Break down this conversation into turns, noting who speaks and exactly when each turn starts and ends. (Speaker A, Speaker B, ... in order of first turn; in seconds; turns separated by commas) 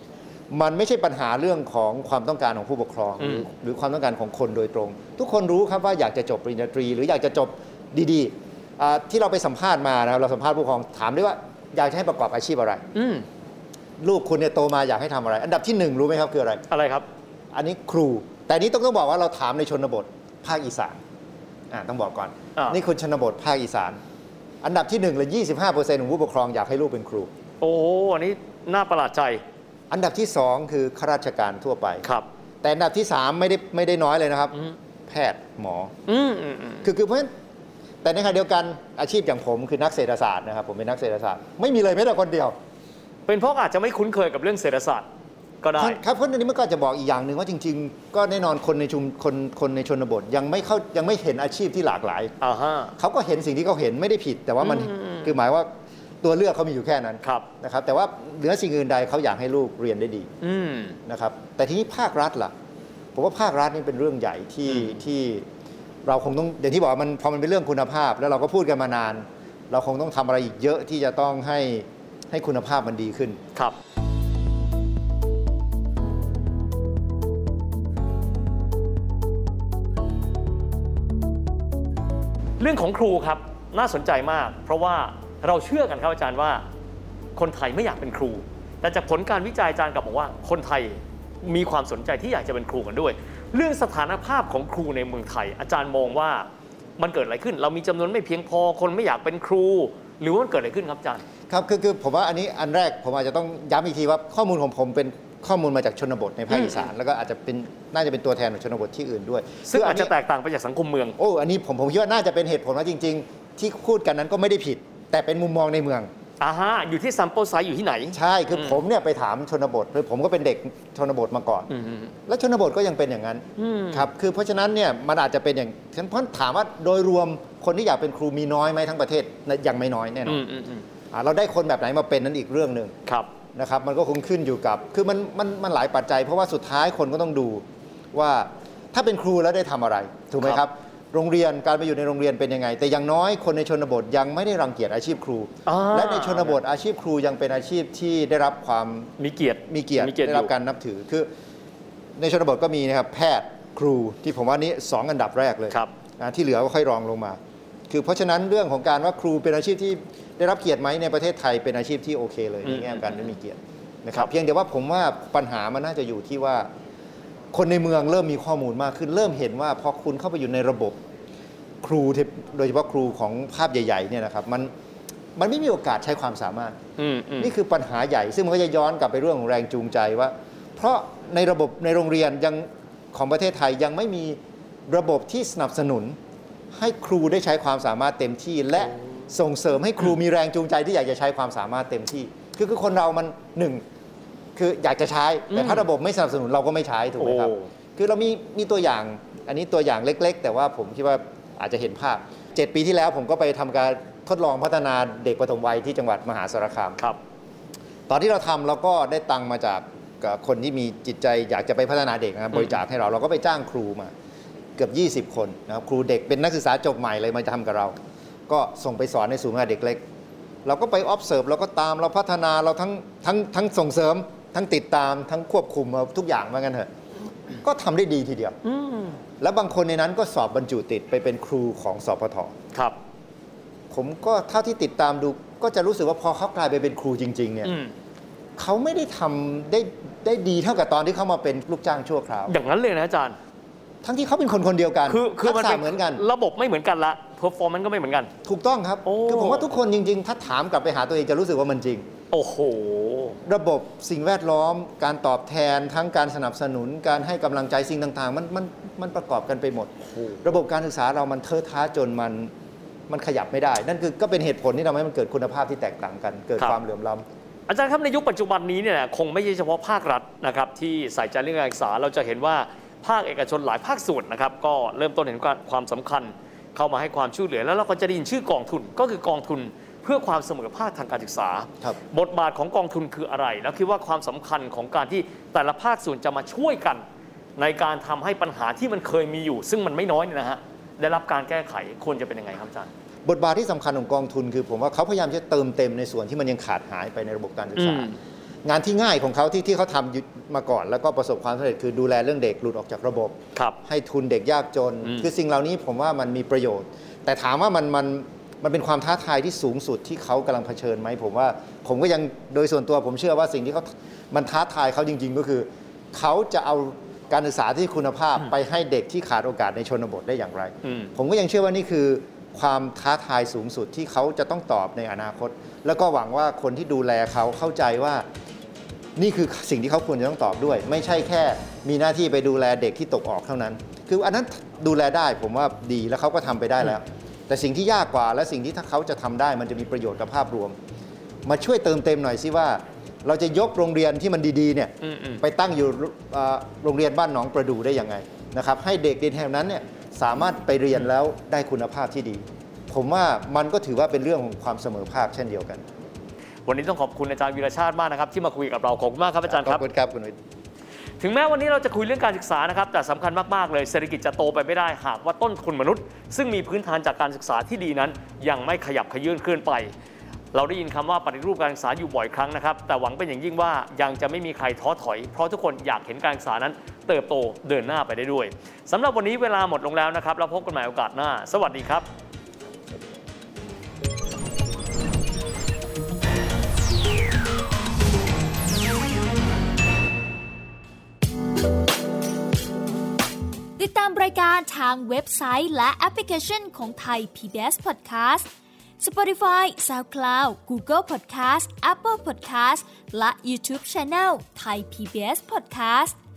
Speaker A: 0.5-12.8, Speaker B: 3.2-3.5, Speaker B: 12.9-13.3, Speaker A: 14.0-16.6, Speaker B: 16.7-17.1, Speaker A: 17.5-21.0, Speaker A: 21.7-24.0, Speaker A: 24.6-27.3, Speaker B: 27.6-29.4, Speaker A: 29.9-32.0, Speaker A: 32.6-35.9, Speaker B: 36.1-36.9, Speaker A: 36.8-37.3, Speaker A: 38.0-42.6, Speaker B: 43.3-45.1, Speaker B: 45.6-46.0, Speaker A: 45.8-52.3, Speaker B: 52.4-52.9, Speaker A: 53.0-55.7, Speaker B: 54.6-55.4, Speaker A: 56.2-60.3, Speaker B: 60.4-61.0, Speaker A: 61.1-62.5, Speaker A: 63.1-65.5, Speaker B: 64.7-65.0, Speaker A: 66.1-73.4, Speaker B: 82.6-86.6, Speaker B: 87.3-101.2, Speaker A: 101.5-110.1, Speaker B: 106.5-106.9, Speaker B: 109.7-111.2, Speaker A: 111.2-116.1, Speaker B: 116.4-118.8, Speaker A: 118.1-121.7, Speaker B: 121.7-122.1, Speaker A: 122.3-130.4, Speaker B: 123.6-124.1, Speaker B: 130.2-130.9, Speaker A: 131.1-132.9, Speaker A: 133.6-149.1, Speaker B: 145.7-146.6, Speaker B: 149.2-150.5, Speaker A: 149.7-151.3, Speaker A: 152.2-157.4, Speaker A: 157.9-166.7, Speaker B: 162.7-163.3, Speaker A: 167.5-171.0, Speaker A: 171.8-174.7, Speaker A: 175.4-176.8, Speaker B: 177.0-177.5, Speaker A: 177.4-186.2, Speaker A: 186.7-193.8, Speaker A: 194.6-207.0, Speaker B: 195.5-195.9, Speaker B: 197.2-197.7, Speaker A: 208.1-214.1, Speaker A: 214.8-217.9, Speaker A: 218.5-220.0, Speaker A: 220.7-226.9, Speaker A: 227.6-228.6, Speaker B: 228.6-229.2, Speaker A: 229.4-232.5, Speaker A: 233.9-237.7, Speaker B: 237.6-237.9, Speaker A: 238.6-242.6, Speaker B: 242.5-243.4, Speaker A: 244.0-246.2, Speaker B: 245.1-248.3, Speaker A: 248.4-252.1, Speaker B: 249.1-249.7, Speaker B: 252.3-253.4, Speaker A: 253.4-262.5, Speaker B: 260.1-260.4, Speaker A: 263.1-267.2, Speaker B: 267.7-287.0, Speaker B: 287.6-292.9, Speaker A: 293.2-298.1, Speaker B: 297.8-298.2, Speaker A: 298.6-328.2, Speaker B: 305.0-305.3, Speaker B: 320.8-321.1, Speaker A: 329.2-340.8, Speaker A: 341.5-355.8, Speaker B: 345.0-345.4, Speaker B: 356.7-359.8, Speaker A: 359.4-360.4, Speaker B: 361.2-369.9, Speaker B: 370.5-382.1, Speaker C: 393.8-398.5, Speaker C: 399.0-406.2